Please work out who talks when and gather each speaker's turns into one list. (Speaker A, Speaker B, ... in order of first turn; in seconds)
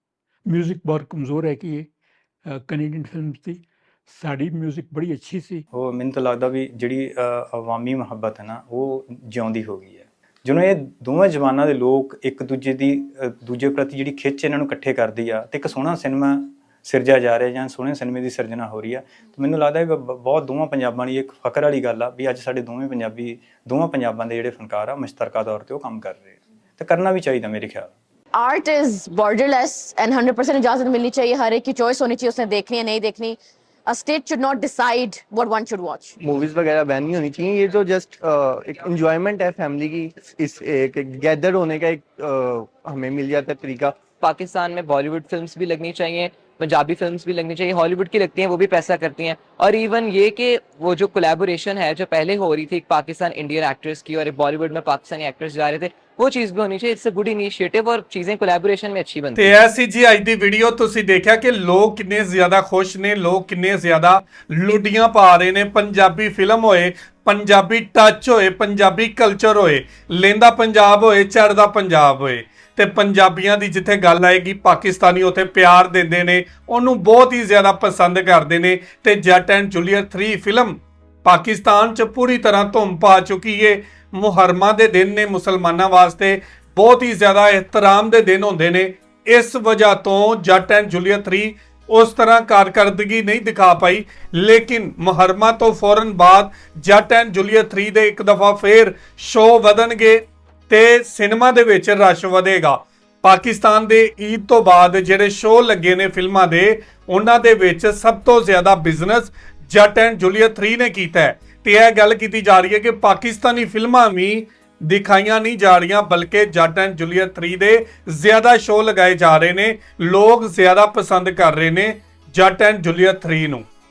Speaker A: 0.5-1.9, 2.5-5.7
Speaker B: 5.7-27.9
Speaker C: 28.4-36.1
Speaker D: 36.2-44.1
Speaker E: 44.1-59.7
Speaker F: 59.4-123.7